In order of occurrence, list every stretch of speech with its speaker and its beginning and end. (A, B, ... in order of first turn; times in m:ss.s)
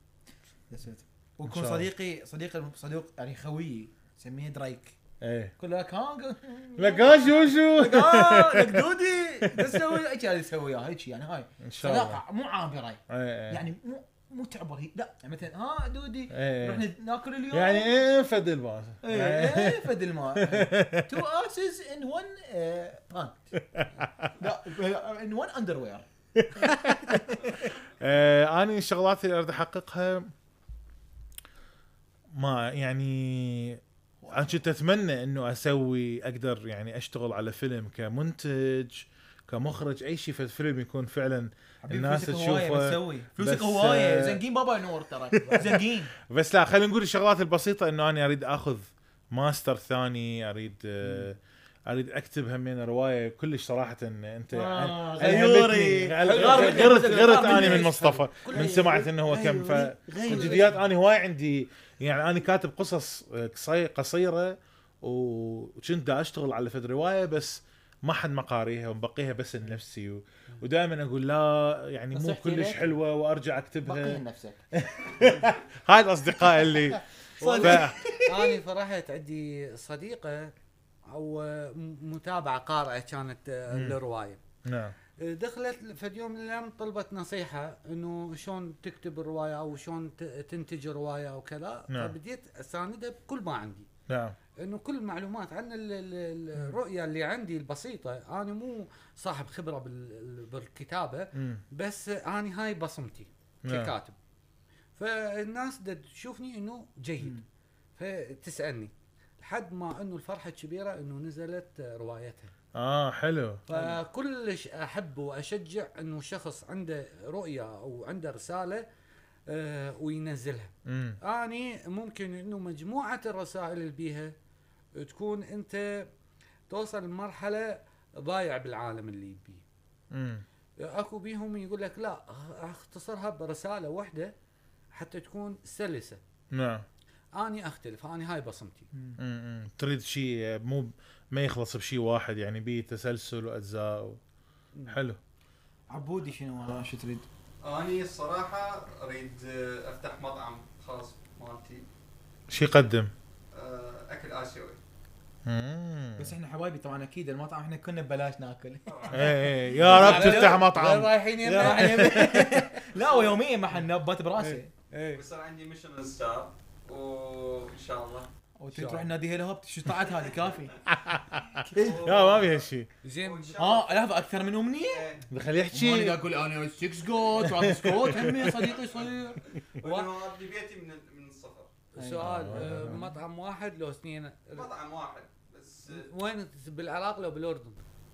0:00.7-0:05.0 A
0:01.5-0:01.9 B
0:05.2-0:05.5 B
0:05.6-0:17.9 A
0:06.8-0:09.8 B
0:11.6-0:12.2 B
0:13.1-0:13.6 B
0:16.3-0:16.9 B
0:17.5-0:21.2 B
0:19.0-0:23.4 A
0:23.6-0:24.3 B
0:24.4-0:26.1 A
0:26.4-0:30.3 B
0:26.6-0:27.7 A
0:32.4-0:44.4 B
0:34.2-0:34.6 A
0:41.8-0:46.1 A
0:45.4-1:14.2 B
0:54.5-1:00.8 A
0:56.2-0:59.1 C
1:00.2-1:00.7 C
1:12.1-1:13.0 A
1:13.8-1:14.6 A
1:14.7-1:17.0 B
1:17.4-1:20.5 C
1:17.4-1:18.6 A
1:17.6-1:18.0 B
1:21.1-1:24.4 C
1:23.7-1:24.0 B
1:24.6-1:25.0 B
1:25.2-1:33.9 C
1:31.9-1:32.2 B
1:34.1-1:34.4 B
1:34.6-1:44.2 C
1:41.4-1:41.6 B
1:43.6-1:43.9 B
1:45.0-1:47.4 C
1:48.0-1:52.5 C
1:52.8-1:53.6 B
1:53.7-1:58.8 C
1:53.7-1:54.0 A
1:59.5-2:04.3 C
2:00.9-2:01.2 B
2:05.0-2:06.1 C
2:06.7-2:09.6 C
2:10.1-2:10.4 B
2:10.8-2:14.3 C
2:14.9-2:16.2 C
2:16.5-2:16.9 B
2:17.4-2:18.9 C
2:18.9-2:19.2 A
2:19.2-2:24.2 B
2:24.7-2:25.0 C
2:24.9-2:25.2 B
2:25.9-2:27.3 A
2:27.6-2:31.8 D
2:32.5-2:33.1 B
2:33.5-2:34.8 D
2:35.4-2:36.4 B
2:36.2-2:40.7 A
2:38.9-2:39.5 D
2:39.1-2:42.7 B
2:39.8-2:42.4 C
2:41.4-2:44.7 A
2:43.0-2:43.4 D
2:44.4-2:45.2 C
2:45.1-2:48.3 D
2:48.6-2:50.7 A
2:48.7-2:49.1 C
2:50.9-2:52.9 B
2:51.7-2:52.7 D
2:51.7-2:52.2 A
2:53.0-2:53.7 C
2:53.2-2:54.0 D
2:53.6-2:55.1 A
2:54.8-2:55.3 D
2:55.3-2:56.2 B
2:55.7-2:59.4 A
2:57.3-2:58.8 B
2:58.7-3:01.7 D
2:59.8-3:00.1 C
3:01.9-3:04.7 C
3:02.0-3:03.1 A
3:02.2-3:03.1 B
3:04.6-3:06.1 D
3:05.9-3:07.8 C